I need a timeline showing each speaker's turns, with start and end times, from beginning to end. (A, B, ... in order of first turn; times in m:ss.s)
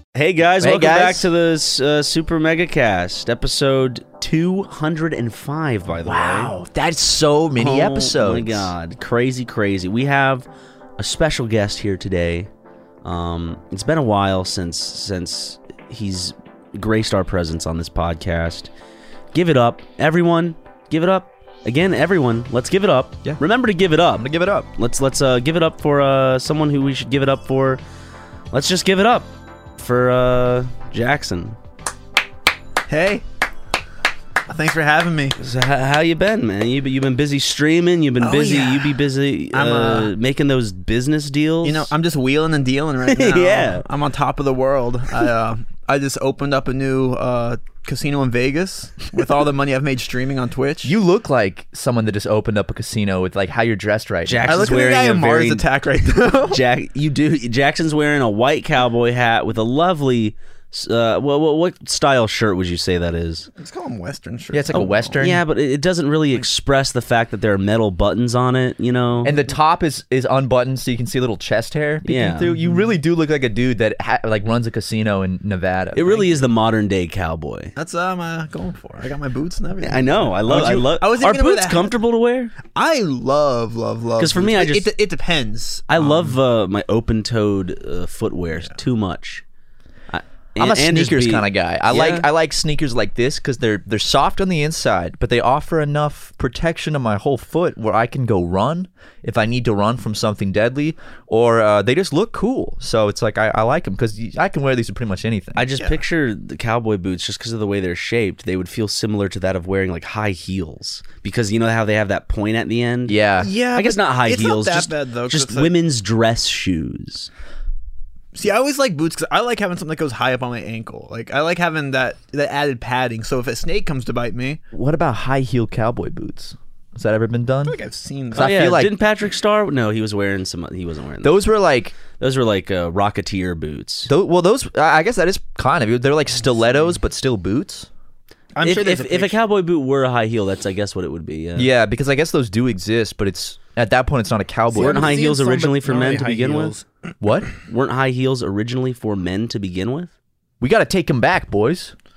0:00.1-0:06.5 A
0:00.6-0:01.3 B
0:06.0-0:08.7 B
0:07.6-0:10.4 A
0:11.0-0:12.5 A
0:13.0-0:18.7 A
0:19.3-0:27.8 A
0:24.1-0:24.7 B
0:28.5-0:31.6 A
0:32.9-0:33.2 C
0:34.4-0:35.4 C
0:35.4-0:41.9 A
0:38.2-0:39.0 C
0:39.5-0:40.1 C
0:41.6-0:51.0 C
0:43.1-0:43.8 A
0:50.8-0:54.8 B
0:54.2-0:55.7 A
0:54.4-0:56.6 C
0:56.5-1:03.5 A
1:03.6-1:05.2 C
1:04.5-1:05.4 B
1:05.2-1:09.3 A
1:09.2-1:16.2 B
1:12.0-1:12.5 A
1:15.9-1:17.7 A
1:17.8-1:21.9 C
1:19.8-1:22.6 A
1:22.7-1:26.4 C
1:24.2-1:24.9 A
1:25.9-1:29.4 A
1:30.1-1:32.2 A
1:30.6-1:45.7 B
1:45.6-1:57.3 A
1:53.0-1:53.5 B
1:53.4-1:55.7 C
1:58.3-2:04.6 C
2:04.7-2:07.8 B
2:07.6-2:08.5 C
2:08.3-2:08.9 B
2:08.4-2:11.4 A
2:11.2-2:12.0 B
2:12.1-2:14.1 A
2:14.1-2:17.9 B
2:18.6-2:19.4 C
2:18.6-2:21.7 A
2:21.6-2:25.2 B
2:24.7-2:26.8 C
2:24.7-2:26.8 A
2:27.2-2:27.5 B
2:27.7-2:30.1 A
2:30.6-2:31.9 B